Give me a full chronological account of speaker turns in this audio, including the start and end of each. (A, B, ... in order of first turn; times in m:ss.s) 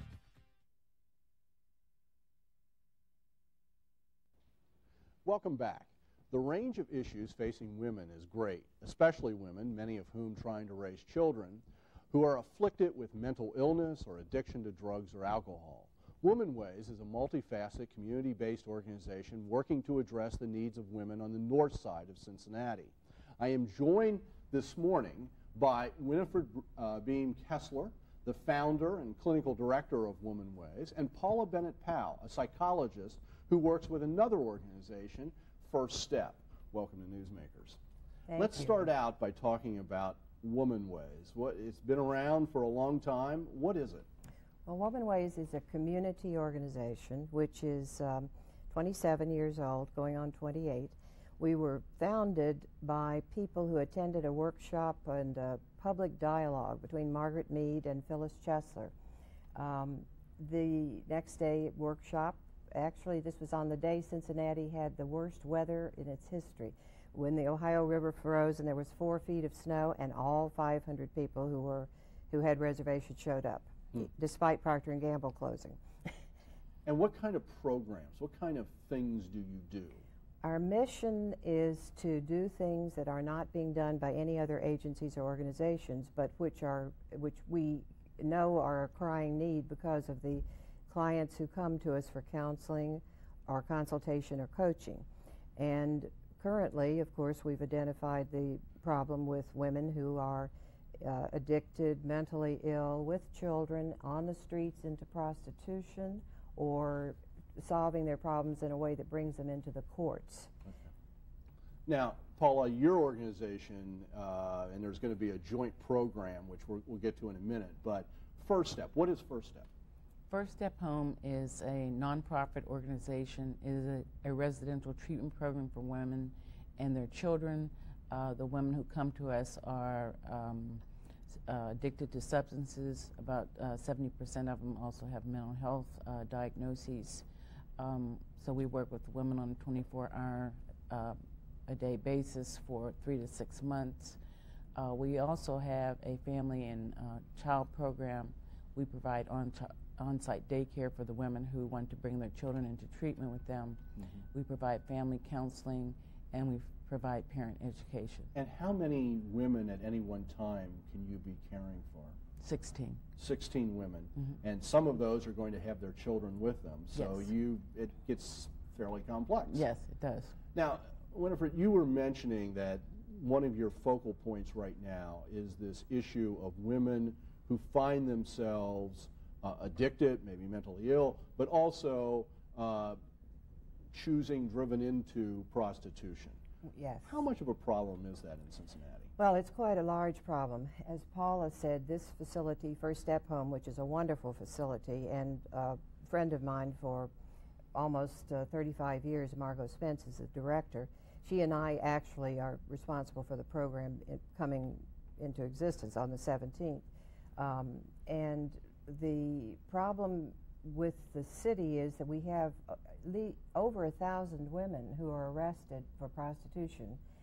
0:05.2-0:37.8 A
0:38.3-0:38.8 B
0:38.4-0:44.0 A
0:44.6-0:58.9 B
0:59.6-1:15.8 B
1:16.8-1:20.0 A
1:20.4-1:35.0 B
1:35.6-1:50.5 B
1:51.8-1:59.7 A
2:00.3-2:10.8 C
2:11.4-2:17.2 C
2:17.8-2:24.2 C
2:24.8-2:38.3 C
2:38.3-2:42.2 A
2:42.4-2:43.0 C
2:43.2-2:49.6 A
2:46.9-2:47.3 C
2:49.5-2:50.4 C
2:50.5-3:03.0 A
3:03.9-3:06.4 A
3:06.6-3:07.2 B
3:07.0-3:09.1 A
3:09.2-3:17.1 B
3:17.7-3:26.8 B
3:27.4-3:37.0 B